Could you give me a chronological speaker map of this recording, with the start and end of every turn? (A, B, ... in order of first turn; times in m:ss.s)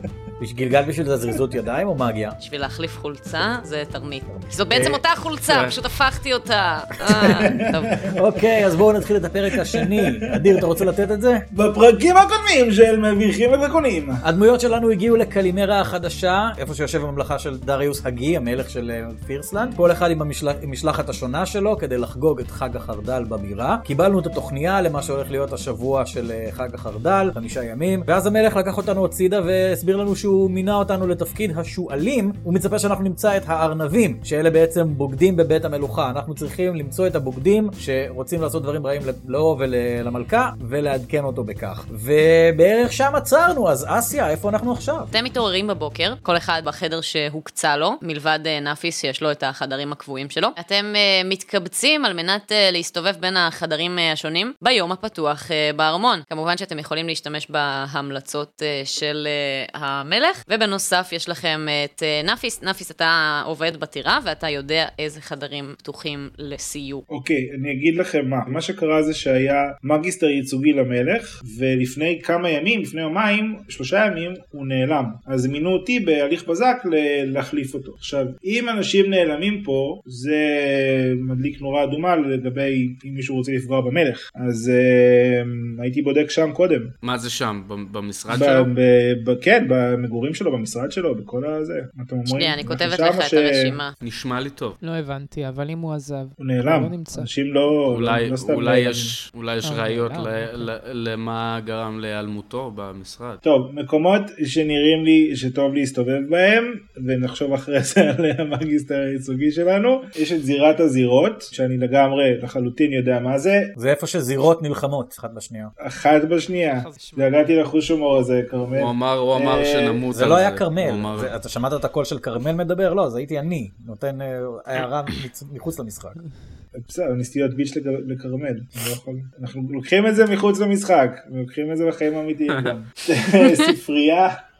0:00.4-0:02.4 A
0:02.4-0:07.9 B
0:04.3-0:05.0 A
0:05.5-0:05.7 C
0:07.0-0:08.6 D
0:08.1-0:11.4 A
0:09.5-0:10.8 D
0:11.5-0:14.2 D
0:14.2-0:45.1 A
0:45.1-1:07.0 B
1:07.1-1:26.9 D
1:27.0-1:28.7 C
1:28.3-1:33.8 D
1:32.3-1:33.9 B
1:34.0-1:34.8 C
1:34.8-1:37.3 E
1:36.4-1:39.1 D
1:37.9-1:43.4 C
1:39.6-1:40.7 E
1:43.4-1:53.7 D
1:53.8-1:55.7 A
1:55.8-2:00.0 D
1:56.7-1:57.5 E
1:58.7-2:01.3 C
2:00.1-2:06.2 A
2:06.7-2:14.4 D
2:12.5-2:12.8 C